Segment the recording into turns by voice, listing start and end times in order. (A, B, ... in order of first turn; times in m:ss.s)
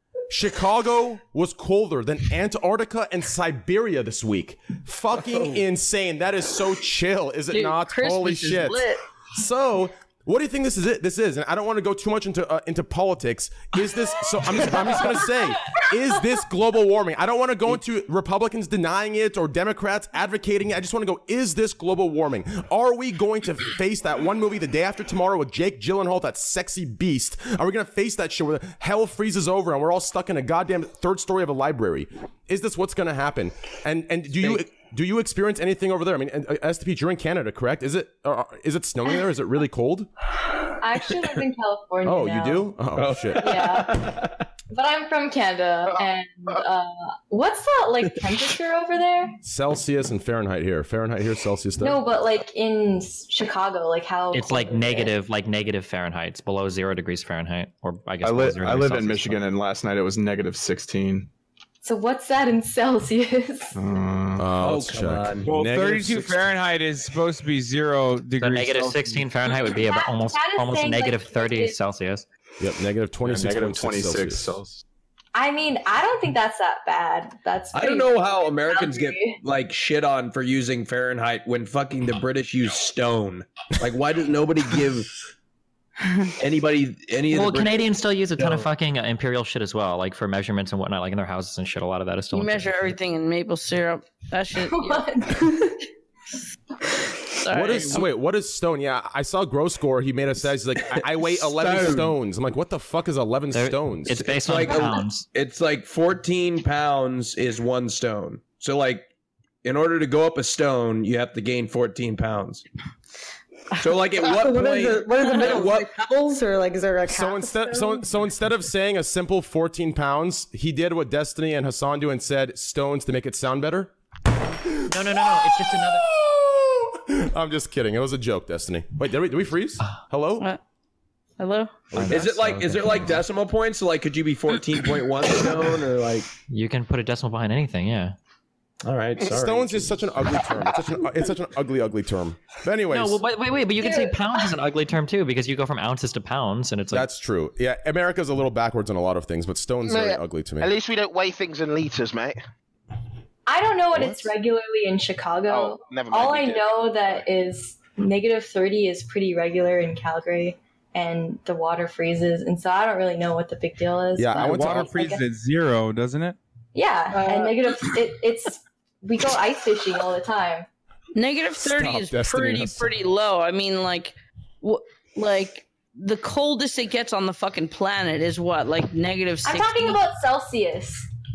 0:00.3-0:40.1 A
0:07.5-0:09.0 B
0:40.7-0:49.4 C
0:42.0-0:43.8 A
0:43.0-0:44.2 D
0:49.4-0:52.0 A
0:51.8-0:55.1 C
0:54.3-0:59.4 E
0:58.2-1:01.3 F
1:01.8-1:03.8 C
1:03.7-1:04.5 F
1:04.4-1:06.5 A
1:04.6-1:05.5 D
1:05.4-1:09.3 G
1:08.4-1:12.2 E
1:09.6-1:11.8 C
1:12.6-1:14.6 A
1:13.2-1:14.8 F
1:15.3-1:19.4 C
1:17.7-1:25.1 D
1:26.4-1:28.7 D
1:27.3-1:32.9 E
1:32.3-1:35.0 B
1:34.7-1:35.8 C
1:37.4-1:38.0 B
1:37.5-1:44.3 A
1:41.2-1:42.2 D
1:43.5-1:45.2 E
1:44.1-1:49.1 D
1:44.7-1:45.0 C
1:49.6-1:52.6 D
1:53.8-1:55.9 D
1:54.3-1:58.0 H
1:57.0-2:03.9 A
2:04.6-2:10.5 A
2:04.9-2:06.1 E
2:11.4-2:11.8 B
2:11.9-2:12.5 A
2:11.9-2:13.2 E
2:12.1-2:16.3 D
2:16.5-2:18.1 E
2:18.8-2:20.4 D
2:19.2-2:23.2 A
2:22.9-2:27.1 E
2:23.8-2:24.5 C
2:26.9-2:30.7 A
2:29.9-2:32.4 I
2:33.4-2:45.2 C
2:33.9-2:34.3 A
2:35.5-2:37.2 I
2:44.2-2:45.0 A
2:44.4-2:46.4 G
2:46.7-2:50.7 C
2:47.1-2:47.5 B
2:51.1-3:00.0 B
2:51.6-2:52.9 A
2:59.4-3:01.1 C